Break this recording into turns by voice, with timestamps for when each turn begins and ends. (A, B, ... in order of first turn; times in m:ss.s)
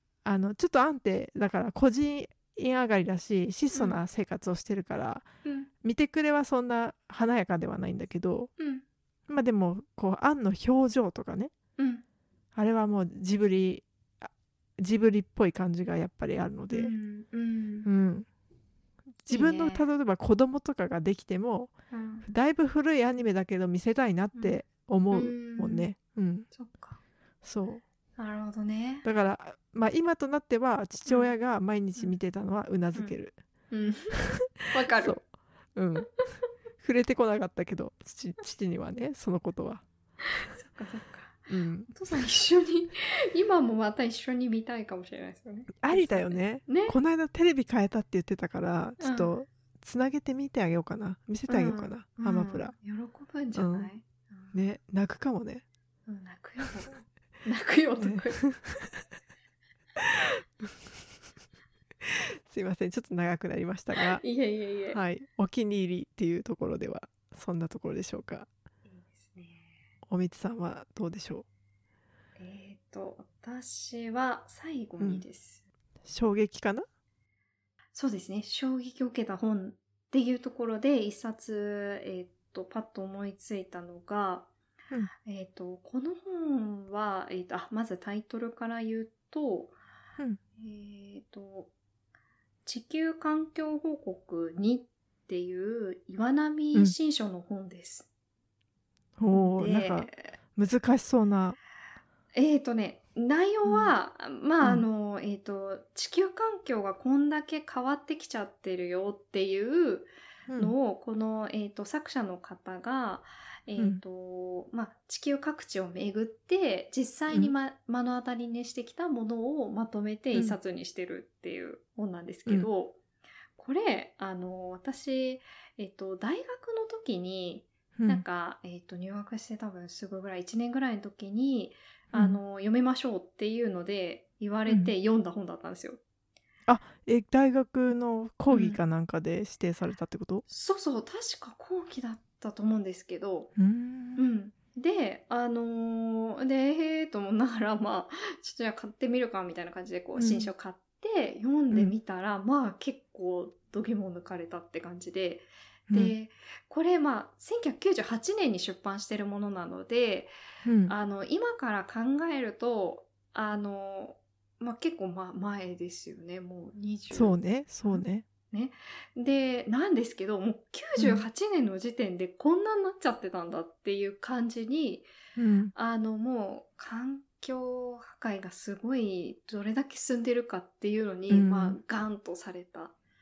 0:00.2-0:05.3 A
0:03.7-0:04.0 B
0:05.8-0:08.5 A
0:08.6-0:08.8 B
0:09.3-0:11.5 A
0:11.8-0:12.0 B
0:12.6-0:16.9 A
0:16.7-0:17.9 B
0:17.8-0:18.3 A
0:19.2-0:26.5 A
0:19.3-0:19.9 B
0:21.9-0:22.3 B
0:25.1-0:25.9 B
0:26.5-0:27.0 B
0:27.4-0:27.8 A
0:28.2-0:29.1 B
0:29.0-0:33.4 A
0:33.7-0:35.2 B
0:34.2-0:35.2 A
0:35.8-0:36.2 A
0:36.8-0:39.8 A
0:40.4-0:47.0 B
0:41.5-0:41.9 A
0:45.8-0:52.7 A
0:49.0-0:49.3 B
0:51.5-0:54.6 B
0:53.6-0:53.9 A
0:54.5-0:55.6 A
0:56.1-0:58.4 B
0:58.0-0:58.9 A
1:00.0-1:00.7 A
1:02.0-1:04.2 A
1:04.0-1:05.0 B
1:04.9-1:08.5 A
1:08.9-1:09.8 B
1:10.1-1:11.5 A
1:12.4-1:15.6 B
1:15.0-1:15.2 A
1:16.0-1:16.9 A
1:17.9-1:24.5 B
1:25.2-1:29.8 B
1:30.6-1:31.7 B
1:32.7-1:38.1 B
1:39.2-1:41.6 A
1:39.3-1:40.4 B
1:42.3-2:03.0 B
1:43.6-1:43.9 A
1:50.5-1:50.7 A
1:53.8-1:54.0 A
2:03.6-2:16.0 B
2:08.0-2:08.2 A
2:14.7-2:14.9 A
2:16.7-2:20.4 A
2:18.5-2:18.8 B
2:20.5-2:23.5 B
2:23.6-2:24.2 A
2:24.2-2:40.3 B
2:30.2-2:30.5 A
2:35.9-2:36.2 A
2:40.6-2:41.0 A
2:40.9-2:55.1 B
2:47.1-2:48.2 A
2:51.0-2:51.2 A
2:55.4-2:55.7 A
2:55.8-3:03.0 B
3:01.3-3:01.8 A